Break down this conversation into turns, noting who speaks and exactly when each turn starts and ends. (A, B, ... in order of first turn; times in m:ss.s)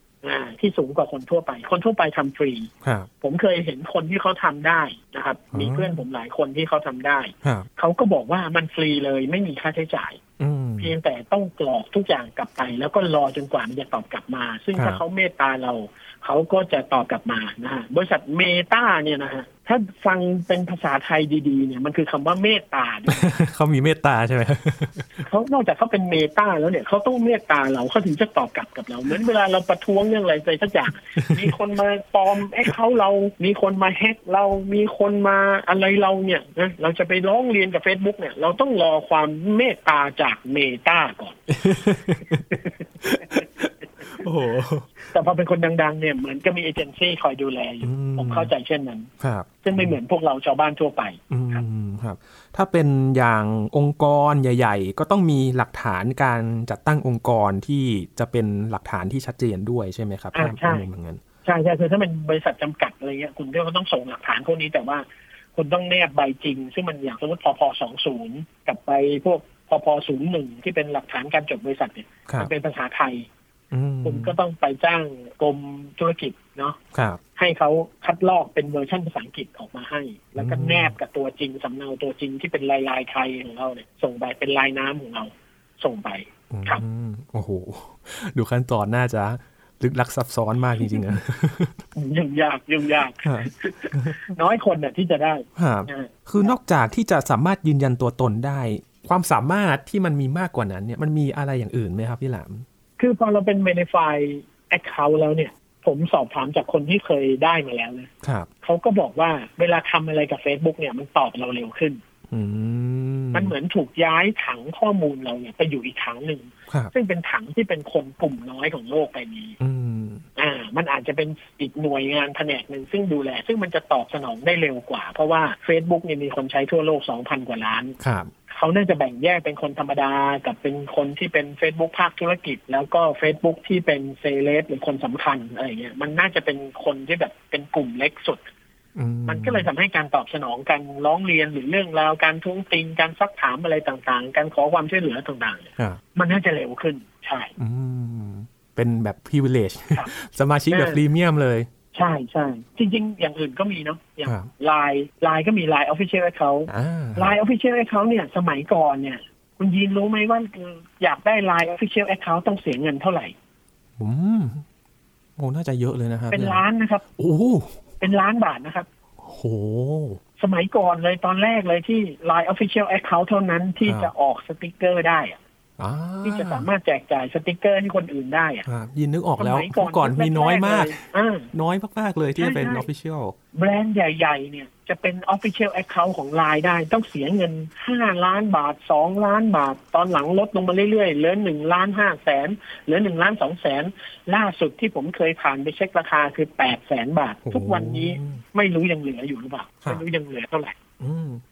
0:00.2-0:02.7 A
0:03.2-0:10.2 A
0:05.5-0:06.0 B
0:07.4-0:07.7 B
0:10.4-0:10.9 B
0:10.8-0:23.3 A
0:14.8-0:15.0 B
0:23.1-0:25.2 B
0:25.2-0:41.4 A
0:31.2-0:31.5 B
0:41.5-0:44.9 B
0:42.5-0:42.8 A
0:45.1-0:49.1 A
0:47.8-0:48.5 B
0:49.2-0:50.0 B
0:49.6-0:51.6 A
0:51.3-1:01.2 B
1:00.3-1:00.8 A
1:01.4-1:13.3 A
1:13.7-1:14.4 B
1:14.0-1:16.8 A
1:16.9-1:17.2 B
1:17.4-1:26.8 A
1:20.4-1:20.9 B
1:26.5-1:31.8 B
1:31.9-1:36.6 A
1:33.2-1:34.2 B
1:35.6-1:42.6 B
1:43.0-1:48.1 A
1:48.2-1:48.5 B
1:48.6-1:52.0 A
1:52.3-1:53.5 B
1:53.3-1:59.6 A
1:59.6-2:00.2 B
2:00.4-2:08.0 A
2:08.0-2:08.3 B
2:08.5-2:18.5 A
2:19.0-2:19.7 B
2:19.3-2:27.5 A
2:27.6-2:31.7 B
2:30.7-2:31.0 A
2:31.9-2:43.3 A
2:36.7-2:37.4 B
2:44.0-2:44.6 B
2:45.4-2:46.6 B
2:46.3-2:47.0 A
2:47.2-2:47.8 B
2:48.0-2:48.9 A
2:49.2-2:50.2 B
2:50.4-2:55.4 A
2:53.8-2:54.1 B
2:55.8-2:56.7 B
2:56.2-2:58.6 A
2:58.6-3:03.3 B
2:59.4-3:01.5 A
3:02.4-3:02.9 A
3:03.5-3:20.8 A
3:17.4-3:18.4 B
3:21.0-3:21.4 B